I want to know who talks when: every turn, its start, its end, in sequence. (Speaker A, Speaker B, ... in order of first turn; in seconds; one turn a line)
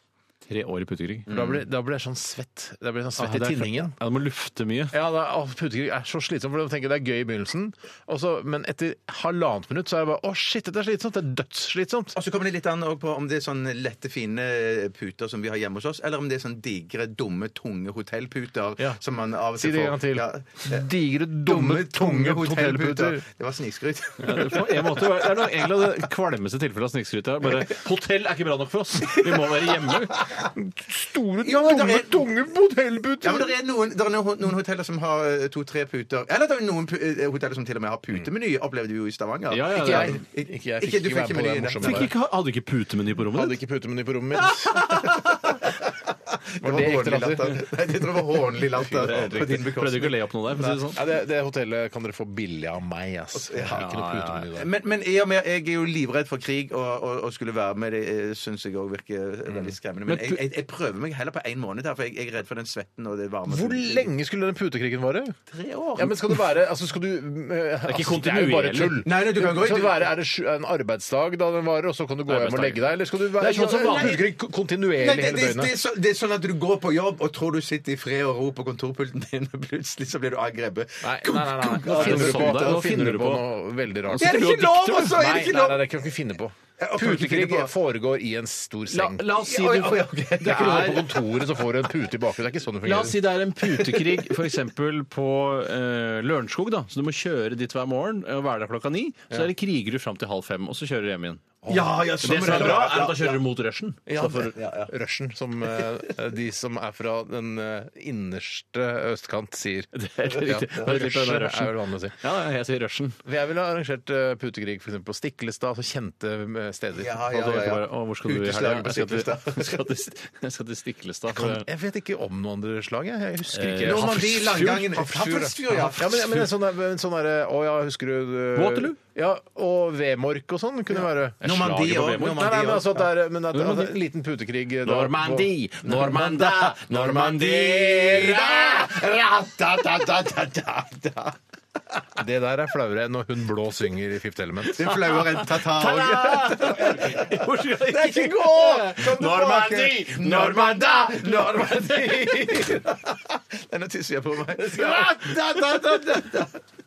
Speaker A: 0.5-1.3
Speaker B: 1.3-1.6
Speaker C: 1.3-4.0
Speaker A: 3.2-4.9
Speaker C: 4.9-12.2
Speaker B: 12.2-20.9
Speaker C: 19.6-23.2
Speaker B: 21.4-25.3
Speaker A: 24.2-30.2
Speaker C: 30.2-33.6
Speaker B: 31.4-32.2
Speaker B: 33.2-42.1
Speaker A: 39.5-40.2
Speaker C: 39.7-42.1
Speaker A: 41.8-43.6
Speaker C: 43.3-45.3
Speaker A: 44.7-45.1
Speaker B: 45.1-45.8
Speaker B: 46.5-50.9
Speaker C: 46.6-47.6
Speaker A: 48.9-51.0
Speaker C: 50.9-54.7
Speaker B: 53.3-53.9
Speaker A: 53.7-54.5
Speaker B: 54.5-64.1
Speaker C: 59.5-59.8
Speaker A: 60.1-60.4
Speaker C: 63.5-65.3
Speaker B: 65.5-66.4
Speaker C: 66.0-75.8
Speaker A: 67.9-69.0
Speaker B: 69.0-70.1
Speaker A: 72.3-72.9
Speaker A: 73.4-74.2
Speaker B: 73.4-74.3
Speaker B: 75.0-83.0
Speaker C: 81.0-84.4
Speaker A: 81.8-83.4
Speaker A: 84.1-85.2
Speaker B: 84.2-85.8
Speaker C: 85.0-89.2
Speaker B: 86.8-87.7
Speaker A: 88.9-91.0
Speaker B: 89.4-91.3
Speaker C: 90.4-93.2
Speaker A: 92.8-101.5
Speaker B: 93.8-94.1
Speaker C: 101.6-102.4
Speaker B: 101.7-103.4
Speaker A: 102.2-104.5
Speaker C: 104.1-112.2
Speaker B: 104.2-104.9
Speaker A: 109.9-113.2
Speaker C: 113.2-117.2
Speaker B: 117.0-119.8
Speaker A: 117.3-121.7
Speaker C: 121.3-139.0
Speaker A: 123.5-124.2
Speaker B: 123.8-126.5
Speaker A: 128.6-129.0
Speaker B: 131.4-133.1
Speaker A: 133.5-133.9
Speaker A: 134.8-137.8
Speaker B: 135.9-141.3
Speaker C: 142.2-145.0
Speaker B: 144.8-156.5
Speaker A: 144.9-152.2
Speaker A: 154.7-155.4
Speaker C: 154.7-156.2